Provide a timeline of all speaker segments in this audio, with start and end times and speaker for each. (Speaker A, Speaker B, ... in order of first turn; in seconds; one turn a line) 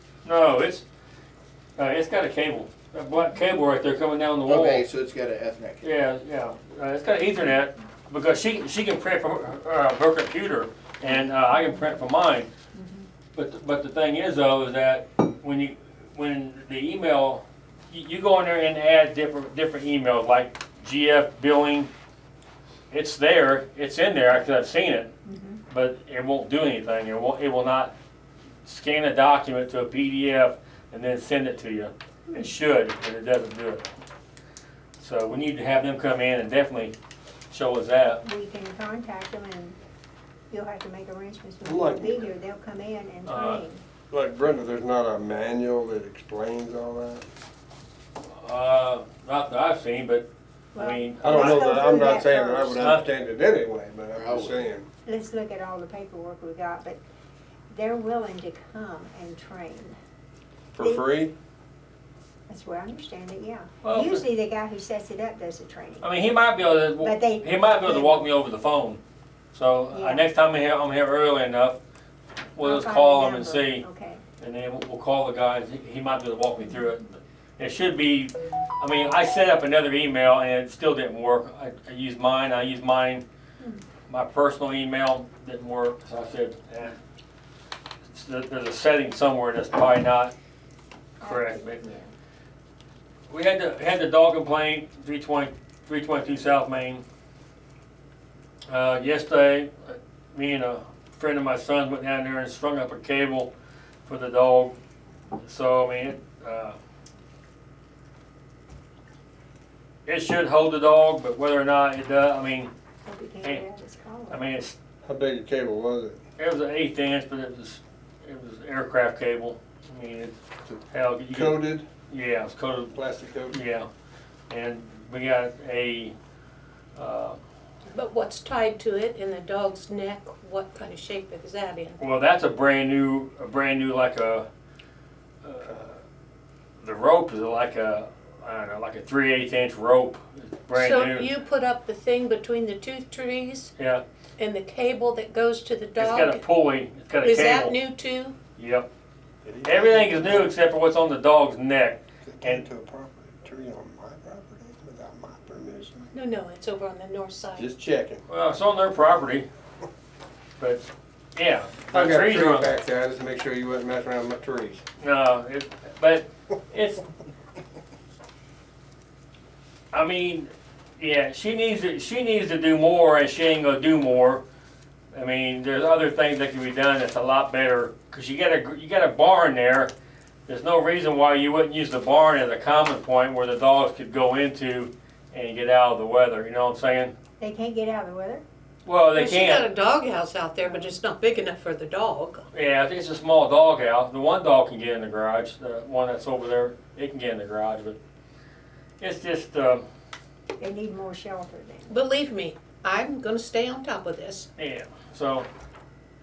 Speaker A: 0.2-0.8
Speaker A: 1.8-4.8
Speaker B: 4.4-5.8
Speaker A: 5.8-12.5
Speaker A: 13.3-21.9
Speaker A: 22.9-25.1
Speaker C: 25.2-25.6
Speaker A: 25.7-27.9
Speaker A: 28.6-33.9
Speaker A: 35.0-36.9
Speaker A: 37.5-38.2
Speaker C: 38.2-39.7
Speaker C: 40.5-43.8
Speaker D: 41.6-42.3
Speaker A: 43.2-43.6
Speaker D: 44.1-47.2
Speaker A: 48.4-51.8
Speaker C: 50.8-53.0
Speaker D: 51.1-54.9
Speaker A: 52.8-53.0
Speaker B: 54.1-54.6
Speaker C: 55.1-57.0
Speaker C: 57.7-59.9
Speaker D: 60.8-61.3
Speaker C: 60.8-61.0
Speaker C: 62.5-66.0
Speaker A: 63.8-64.2
Speaker A: 66.0-69.0
Speaker C: 67.0-68.2
Speaker A: 69.5-71.8
Speaker C: 69.9-70.2
Speaker A: 72.5-73.8
Speaker C: 72.6-74.2
Speaker A: 74.4-83.2
Speaker A: 84.1-87.0
Speaker A: 88.1-90.3
Speaker A: 91.2-91.8
Speaker C: 91.3-92.1
Speaker A: 93.3-97.0
Speaker A: 98.7-103.5
Speaker A: 104.1-104.8
Speaker A: 105.4-106.8
Speaker A: 110.0-112.7
Speaker C: 113.1-114.4
Speaker A: 114.3-114.7
Speaker D: 115.0-116.2
Speaker A: 116.4-120.4
Speaker A: 120.9-122.9
Speaker D: 121.3-121.8
Speaker D: 122.9-123.6
Speaker A: 123.5-123.9
Speaker A: 124.5-126.1
Speaker A: 127.0-127.4
Speaker E: 127.9-132.0
Speaker A: 132.0-134.4
Speaker A: 135.4-136.0
Speaker A: 136.8-141.3
Speaker E: 140.7-143.7
Speaker A: 143.8-144.0
Speaker E: 144.4-146.4
Speaker A: 146.0-147.8
Speaker E: 147.2-148.3
Speaker A: 148.6-148.9
Speaker D: 149.4-150.5
Speaker A: 149.6-152.6
Speaker D: 152.2-156.1
Speaker E: 156.1-157.7
Speaker D: 157.6-158.2
Speaker A: 158.3-159.4
Speaker A: 160.6-162.7
Speaker D: 161.9-164.8
Speaker A: 165.0-167.0
Speaker A: 169.9-174.4
Speaker A: 175.1-179.9
Speaker A: 180.5-187.1
Speaker C: 187.4-188.4
Speaker A: 188.8-189.7
Speaker E: 189.1-192.4
Speaker C: 190.6-190.9
Speaker A: 192.5-198.0
Speaker A: 199.0-199.8
Speaker C: 200.6-201.9
Speaker E: 201.9-204.5
Speaker A: 204.6-205.5